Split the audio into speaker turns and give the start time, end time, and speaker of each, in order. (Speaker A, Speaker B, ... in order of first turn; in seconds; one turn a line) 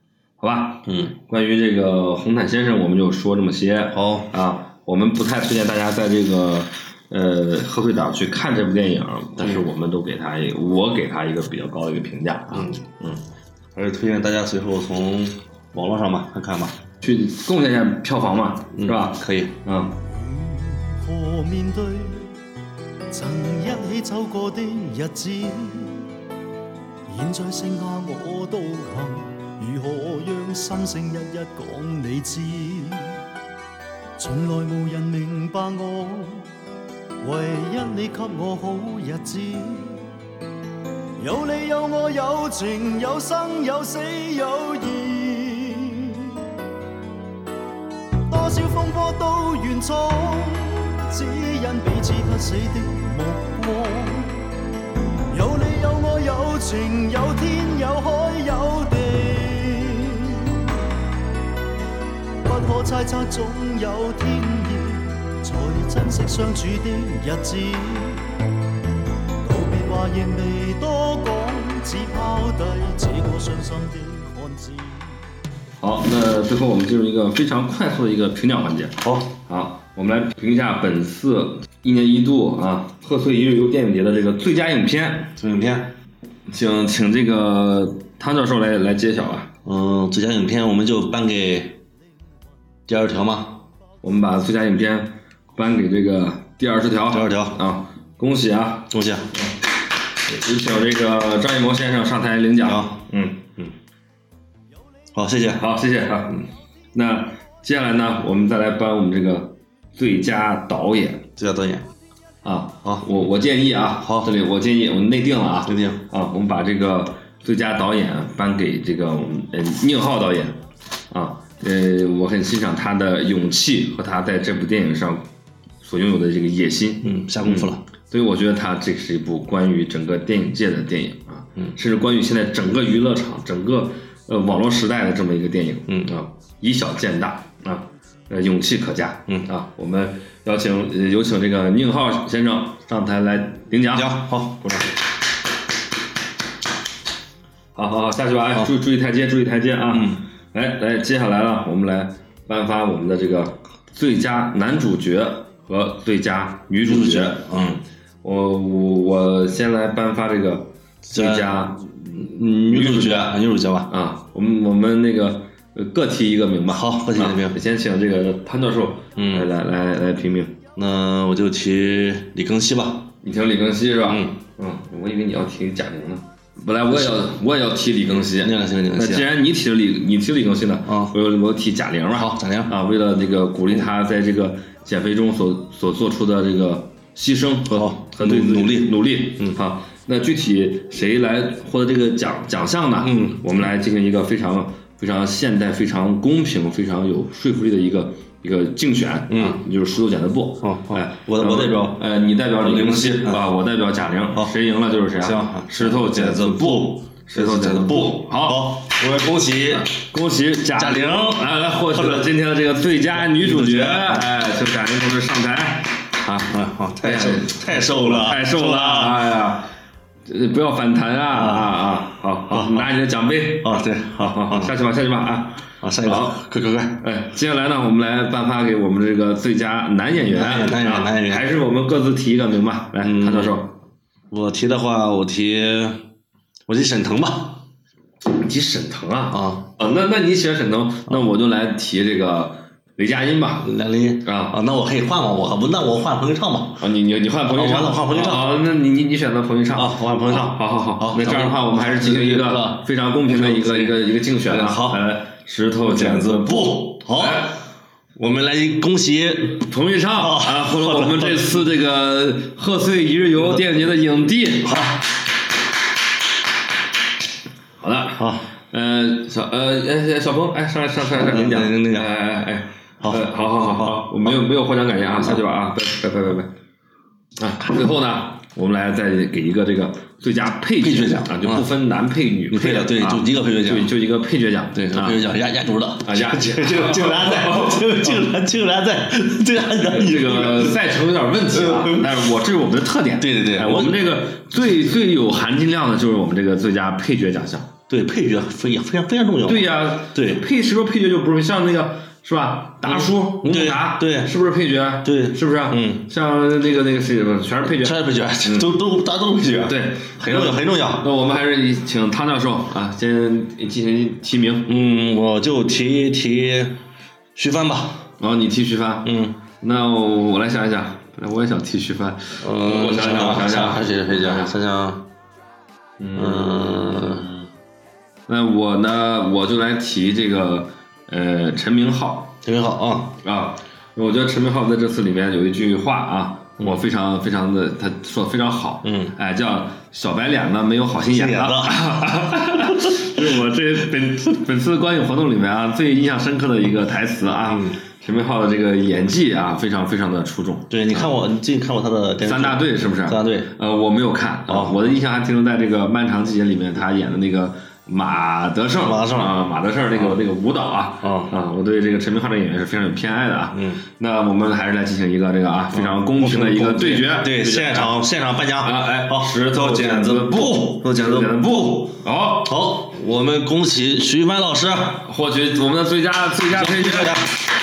Speaker A: 0.4-13.2
Speaker B: 0.9-1.1
Speaker B: 3.9-4.3
Speaker B: 9.4-9.6
Speaker B: 12.5-12.8
Speaker B: 13.8-16.8
Speaker A: 17.0-20.0
Speaker B: 18.8-19.5
Speaker C: 20.1-22.3
Speaker C: 23.1-26.1
Speaker C: 27.1-33.2
Speaker C: 34.2-36.5
Speaker C: 37.2-40.1
Speaker C: 41.2-46.4
Speaker C: 48.3-54.4
Speaker C: 55.3-60.5
Speaker C: 62.4-68.3
Speaker C: 69.4-75.2
Speaker A: 75.8-85.3
Speaker B: 79.0-79.3
Speaker B: 85.4-85.9
Speaker A: 86.5-89.5
Speaker B: 89.7-91.8
Speaker B: 92.9-93.6
Speaker A: 94.0-99.5
Speaker B: 97.1-97.6
Speaker B: 98.9-99.3
Speaker A: 100.3-103.6
Speaker B: 102.6-103.0
Speaker B: 105.1-105.6
Speaker A: 105.6-106.4
Speaker A: 106.9-111.3
Speaker B: 111.4-111.9
Speaker A: 112.4-125.2
Speaker B: 112.8-113.1
Speaker B: 114.0-114.3
Speaker B: 115.7-116.0
Speaker A: 125.8-144.9
Speaker B: 127.0-127.8
Speaker B: 135.9-136.2
Speaker B: 143.9-144.6
Speaker A: 147.8-157.4
Speaker B: 149.9-150.2
Speaker B: 156.8-157.8
Speaker A: 158.2-170.6
Speaker B: 161.1-163.9
Speaker B: 166.7-167.6
Speaker B: 169.2-169.5
Speaker B: 170.8-173.1
Speaker A: 173.2-208.9
Speaker B: 174.1-174.4
Speaker B: 176.9-177.2
Speaker B: 178.4-179.3
Speaker B: 180.9-181.2
Speaker B: 182.1-182.7
Speaker B: 187.7-189.6
Speaker B: 193.0-193.5
Speaker B: 199.3-199.6
Speaker B: 200.6-202.0
Speaker B: 202.6-203.4
Speaker B: 205.2-209.9
Speaker A: 209.7-219.7
Speaker B: 210.7-212.3
Speaker B: 213.2-214.3
Speaker B: 216.5-219.3
Speaker A: 220.3-226.4
Speaker B: 221.3-221.7
Speaker B: 222.5-222.9
Speaker B: 223.6-224.7
Speaker B: 225.8-227.0
Speaker A: 227.0-233.8
Speaker B: 230.2-231.5
Speaker B: 233.0-233.6
Speaker B: 234.3-236.1
Speaker B: 236.7-237.6
Speaker A: 238.3-243.7
Speaker B: 239.3-239.7
Speaker B: 243.6-246.9
Speaker A: 244.2-244.6
Speaker A: 246.8-257.6
Speaker B: 247.5-248.6
Speaker B: 249.7-255.0
Speaker B: 255.8-257.6
Speaker B: 258.2-261.7
Speaker A: 259.7-264.9
Speaker B: 264.6-265.0
Speaker A: 267.8-276.5
Speaker B: 268.2-268.5
Speaker B: 271.1-272.1
Speaker B: 273.0-274.4
Speaker A: 277.4-285.3
Speaker B: 280.8-281.7
Speaker B: 282.5-283.9
Speaker B: 284.7-290.9
Speaker A: 286.0-288.3
Speaker A: 289.8-297.7
Speaker B: 291.5-292.3
Speaker B: 293.2-294.2
Speaker B: 297.9-300.4
Speaker A: 299.4-308.8
Speaker B: 302.8-304.3
Speaker B: 305.0-306.1
Speaker B: 307.6-311.1
Speaker A: 309.7-314.8
Speaker B: 314.7-316.8
Speaker B: 317.4-318.1
Speaker A: 318.2-324.6
Speaker B: 319.0-319.4
Speaker B: 322.4-325.1
Speaker A: 326.0-327.5
Speaker B: 326.1-327.3
Speaker A: 328.3-332.4
Speaker B: 332.4-333.1
Speaker A: 333.2-351.2
Speaker B: 338.8-339.1
Speaker B: 341.1-341.8
Speaker B: 347.5-347.8
Speaker B: 350.7-353.5
Speaker A: 352.2-368.0
Speaker B: 354.5-355.0
Speaker B: 358.8-359.4
Speaker B: 361.0-361.3
Speaker B: 363.5-363.8
Speaker B: 365.7-371.7
Speaker A: 368.6-372.6
Speaker B: 372.4-375.0
Speaker A: 375.0-377.3
Speaker B: 376.5-377.3